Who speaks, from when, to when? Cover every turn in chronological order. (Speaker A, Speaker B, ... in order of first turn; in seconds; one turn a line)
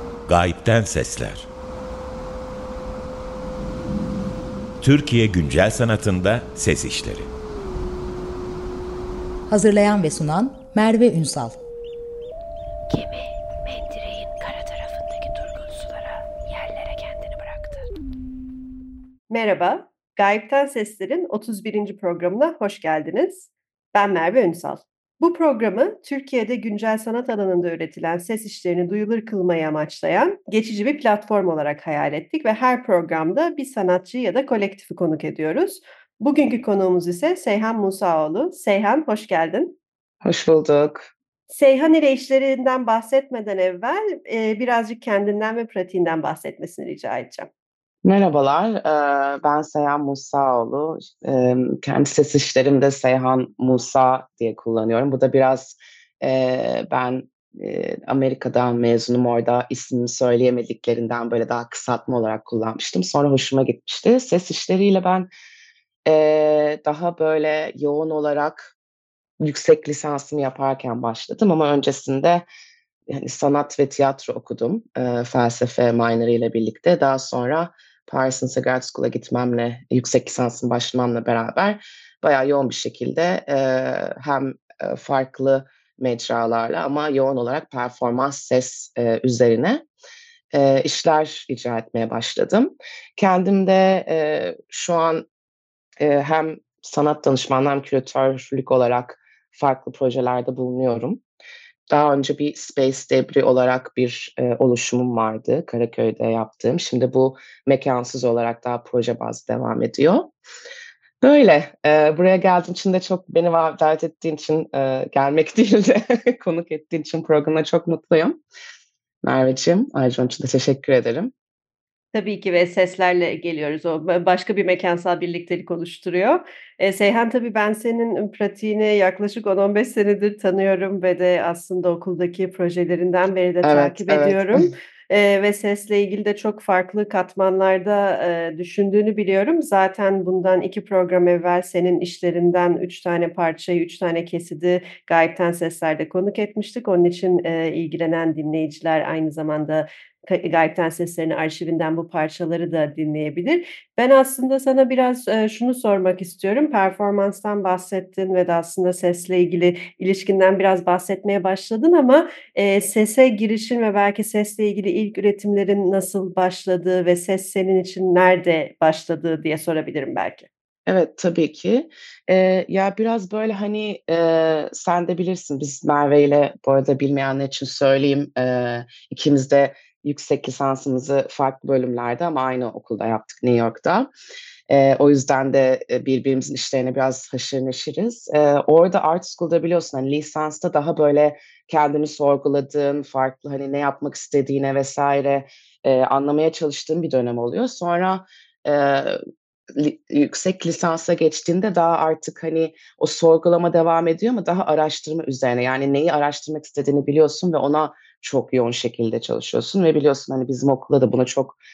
Speaker A: 0.3-1.4
Speaker A: 4.8-7.3
Speaker B: 9.5-11.6
Speaker C: 12.9-17.9
Speaker D: 19.3-39.8
Speaker E: 40.2-41.1
Speaker D: 41.5-47.5
Speaker E: 48.0-65.3
Speaker E: 66.0-68.7
Speaker E: 69.4-72.4
Speaker E: 73.1-89.8
Speaker E: 90.5-95.2
Speaker E: 96.0-101.2
Speaker E: 101.9-110.3
Speaker E: 111.2-118.4
Speaker E: 119.2-121.3
Speaker D: 122.1-170.5
Speaker E: 133.6-134.7
Speaker E: 170.8-184.1
Speaker E: 184.7-199.2
Speaker E: 199.7-211.6